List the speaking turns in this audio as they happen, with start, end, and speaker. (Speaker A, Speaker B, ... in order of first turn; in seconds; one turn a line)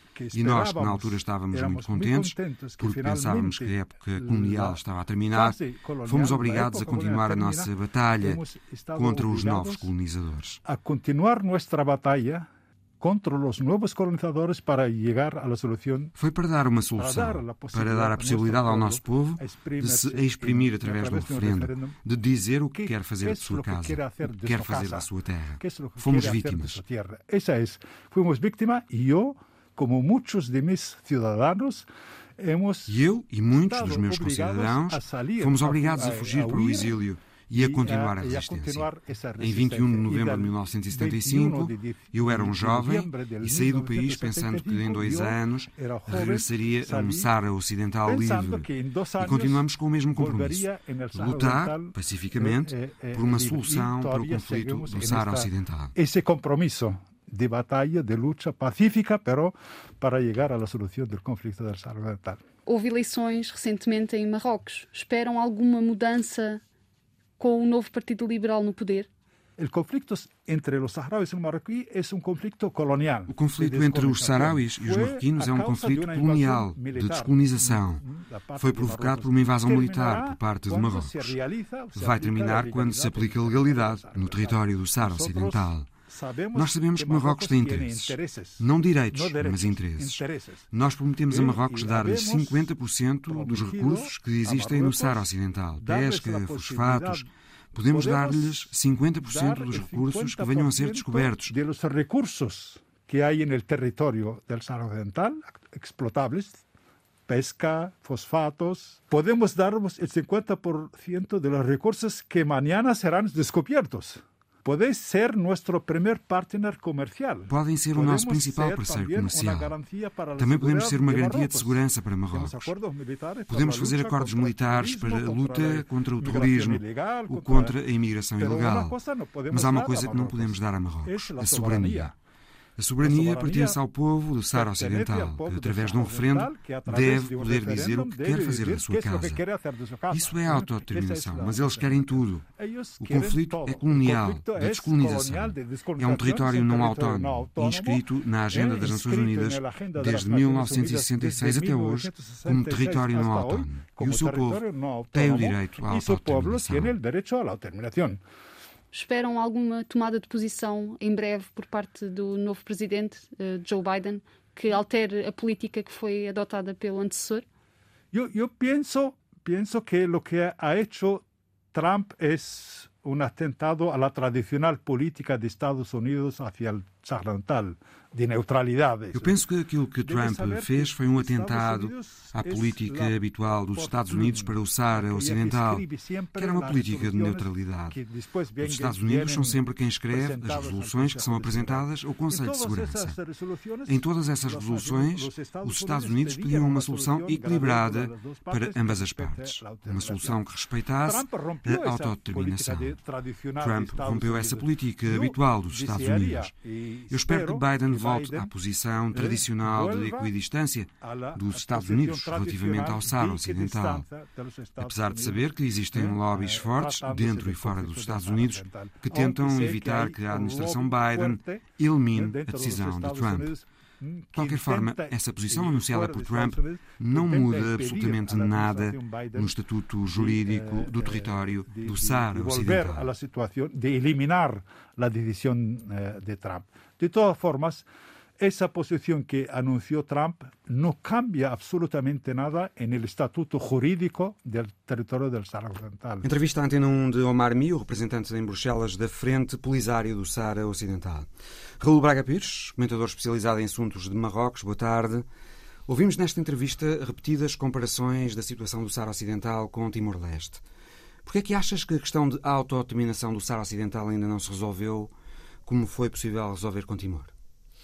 Speaker A: 0.1-9.9
Speaker B: 0.3-8.4
Speaker B: 8.9-10.6
Speaker A: 10.6-12.5
Speaker A: 13.0-16.1
Speaker B: 16.1-26.8
Speaker A: 17.0-22.0
Speaker A: 22.7-25.1
Speaker A: 25.6-31.9
Speaker A: 32.4-32.9
Speaker B: 32.9-48.7
Speaker A: 33.5-37.0
Speaker A: 37.5-47.3
Speaker A: 48.0-62.4
Speaker B: 49.2-55.9
Speaker C: 62.6-66.6
Speaker C: 67.4-69.1
Speaker A: 69.6-90.7
Speaker B: 73.3-78.0
Speaker B: 78.6-81.3
Speaker B: 81.9-85.9
Speaker B: 86.5-101.5
Speaker A: 91.3-92.7
Speaker A: 93.3-95.3
Speaker A: 95.8-97.3
Speaker A: 97.9-98.7
Speaker A: 99.2-106.6
Speaker A: 107.3-127.8
Speaker B: 117.5-119.7
Speaker B: 120.4-122.7
Speaker B: 123.5-129.0
Speaker A: 128.4-132.1
Speaker B: 129.5-132.1
Speaker B: 132.8-139.4
Speaker A: 133.0-133.8
Speaker A: 134.5-158.2
Speaker B: 140.1-142.5
Speaker B: 143.0-156.9
Speaker C: 158.9-167.4
Speaker A: 168.1-179.4
Speaker B: 179.1-185.8
Speaker A: 180.0-183.2
Speaker A: 183.7-200.4
Speaker B: 186.3-188.0
Speaker B: 188.6-193.2
Speaker B: 193.8-203.0
Speaker A: 201.0-208.5
Speaker B: 203.6-206.5
Speaker B: 207.1-214.0
Speaker A: 209.1-210.3
Speaker A: 211.0-229.6
Speaker B: 214.8-223.5
Speaker B: 224.3-233.1
Speaker A: 230.1-237.8
Speaker A: 238.4-246.2
Speaker B: 246.2-251.3
Speaker B: 251.8-255.2
Speaker B: 255.9-260.6
Speaker B: 261.2-265.1
Speaker B: 265.6-267.3